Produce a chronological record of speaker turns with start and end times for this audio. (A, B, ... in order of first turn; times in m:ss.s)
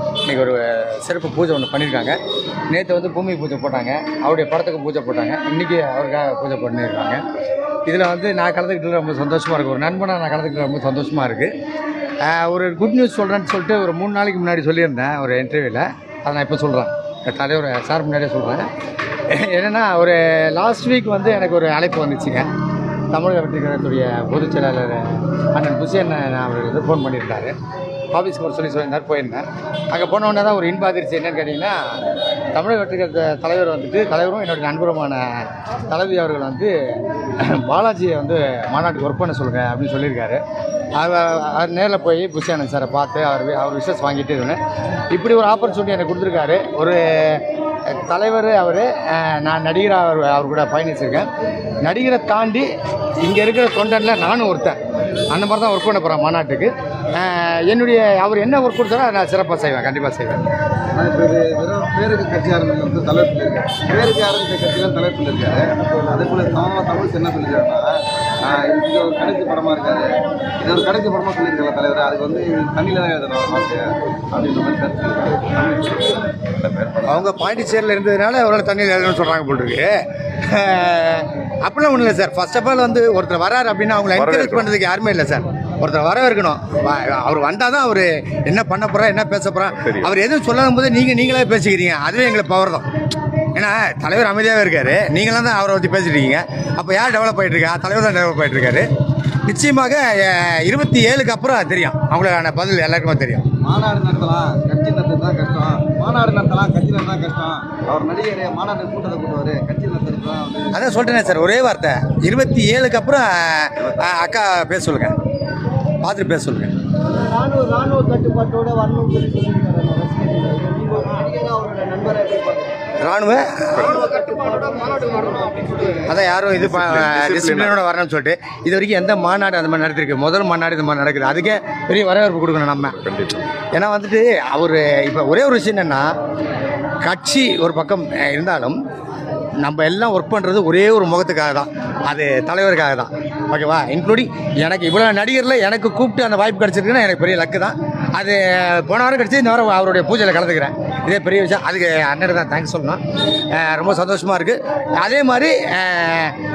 0:00.2-0:02.2 A
0:02.7-0:07.2 A
0:07.9-0:11.5 A
0:12.2-0:18.7 A
0:19.3-0:22.5 A
0:23.1-0:27.6 A
0:28.1-0:31.8 A
0:32.5-0:36.7 A
0:37.4-0:40.4 A
0:41.0-0:44.6 A
0:45.1-0:51.3 A
0:51.8-0:52.7 A
0:53.2-0:54.8 A
0:55.3-1:00.5 A
1:00.9-1:17.3 B
1:17.1-1:32.9 A
1:33.6-1:38.9 A
1:39.4-1:43.5 A
1:43.6-1:50.9 B
1:50.7-1:55.1 A
1:56.0-1:56.7 A
1:57.5-2:02.7 C
2:03.0-2:04.2 A
2:04.2-2:05.8 C
2:05.9-2:16.2 A
2:17.0-2:18.8 A
2:19.6-2:36.4 A